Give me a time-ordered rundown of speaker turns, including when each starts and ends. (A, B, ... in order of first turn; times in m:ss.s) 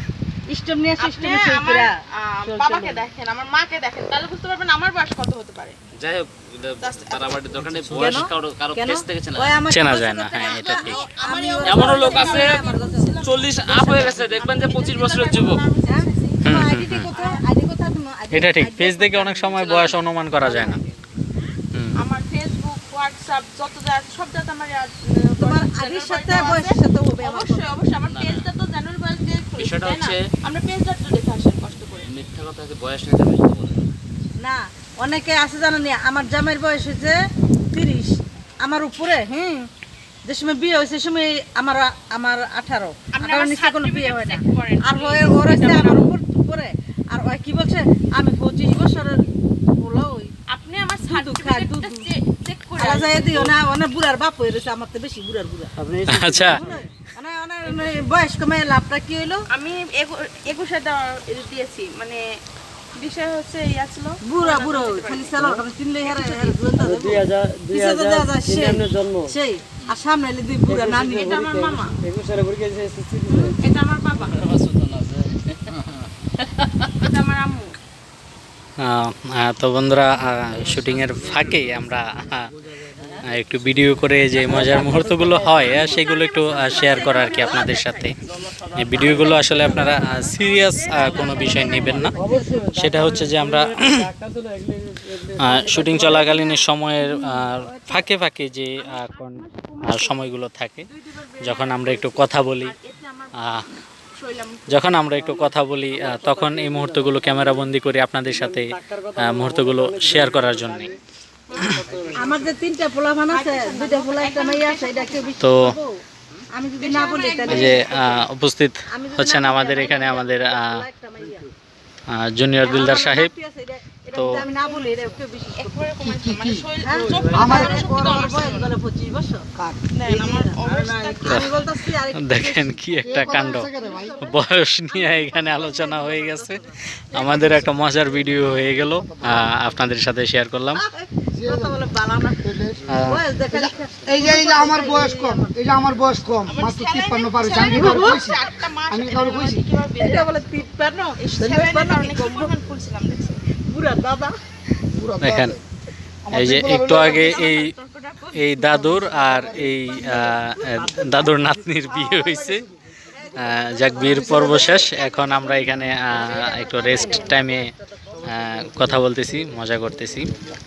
0:00.5-0:01.9 A
0:01.0-0:05.8 B
0:02.5-0:03.0 C
0:06.0-0:09.6 D
0:06.8-0:07.7 B
0:07.9-0:10.1 A
0:09.7-0:11.0 E
0:09.9-0:16.4 B
0:10.8-0:13.2 A
0:11.6-0:15.6 D
0:15.8-0:19.5 A
0:16.4-0:17.1 E
0:17.1-0:17.4 B
0:18.3-0:20.8 E
0:19.5-0:20.0 B
0:20.4-0:20.8 A
0:21.7-0:22.0 E
0:22.0-0:32.1 B
0:25.4-0:27.8 A
0:28.1-0:28.5 D
0:29.6-0:30.3 D
0:32.0-0:33.9 D
0:34.4-0:37.2 A
0:37.7-0:39.7 A
0:40.3-0:50.3 A
0:43.1-0:46.1 B
0:50.5-0:53.5 B
0:51.0-0:52.1 A
0:52.8-0:55.8 A
0:55.8-0:56.7 C
0:56.1-0:56.6 E
0:56.4-0:59.4 A
0:57.7-0:58.0 B
0:59.5-1:02.2 B
1:03.0-1:05.5 B
1:04.2-1:11.5 A
1:06.0-1:06.9 B
1:06.8-1:09.3 C
1:10.7-1:13.6 C
1:11.1-1:12.0 B
1:13.3-1:14.4 B
1:14.1-1:16.0 D
1:17.0-1:17.8 B
1:18.8-1:22.5 E
1:20.5-1:22.4 D
1:23.0-1:23.3 D
1:23.2-1:28.2 E
1:24.4-1:25.0 D
1:24.4-1:25.8 C
1:25.6-1:26.0 D
1:25.8-1:28.2 B
1:28.5-1:30.0 D
1:28.8-1:32.2 E
1:28.9-1:32.2 B
1:31.0-1:32.0 D
1:31.3-1:32.8 A
1:32.2-1:36.4 C
1:32.7-1:34.1 E
1:35.4-1:40.9 E
1:36.3-1:36.6 B
1:37.0-1:37.9 A
1:38.8-1:40.3 B
1:40.9-1:43.4 B
1:41.4-1:42.8 E
1:43.4-1:43.7 E
1:44.1-1:44.9 B
1:44.7-1:50.9 E
1:45.1-1:47.7 C
1:48.3-1:51.0 C
1:51.5-1:51.8 B
1:51.6-1:52.4 C
1:52.2-1:56.0 A
1:53.3-1:55.3 B
1:55.4-1:55.8 E
1:56.5-1:58.0 A
1:56.8-1:58.2 B
1:57.5-2:00.8 E
1:58.9-2:01.5 A
2:02.1-2:03.3 E
2:02.6-2:05.8 A
2:02.7-2:03.2 B
2:04.1-2:04.4 E
2:04.3-2:08.8 B
2:06.0-2:07.9 F
2:06.8-2:09.5 A
2:09.6-2:09.9 F
2:09.9-2:11.6 B
2:10.1-2:16.8 A
2:11.3-2:11.5 E
2:12.2-2:20.8 E
2:13.0-2:14.2 F
2:17.1-2:19.6 F
2:20.8-2:25.6 A
2:21.3-2:21.8 F
2:22.4-2:22.9 F
2:22.9-2:23.2 E
2:23.5-2:29.6 F
2:26.5-2:33.4 B
2:27.8-2:28.3 A
2:30.0-2:32.5 A
2:33.7-2:34.4 A
2:34.9-2:35.6 F
2:35.2-2:35.6 E
2:36.2-2:37.4 F
2:36.3-2:37.8 E
2:36.9-2:38.9 B
2:38.3-2:42.7 E
2:38.9-2:42.8 F
2:42.1-2:42.4 B
2:43.1-2:48.2 A
2:43.4-2:47.7 E
2:43.9-2:44.9 F
2:46.6-2:47.2 B
2:48.3-2:50.3 E
2:48.4-2:49.4 F
2:50.1-2:50.6 F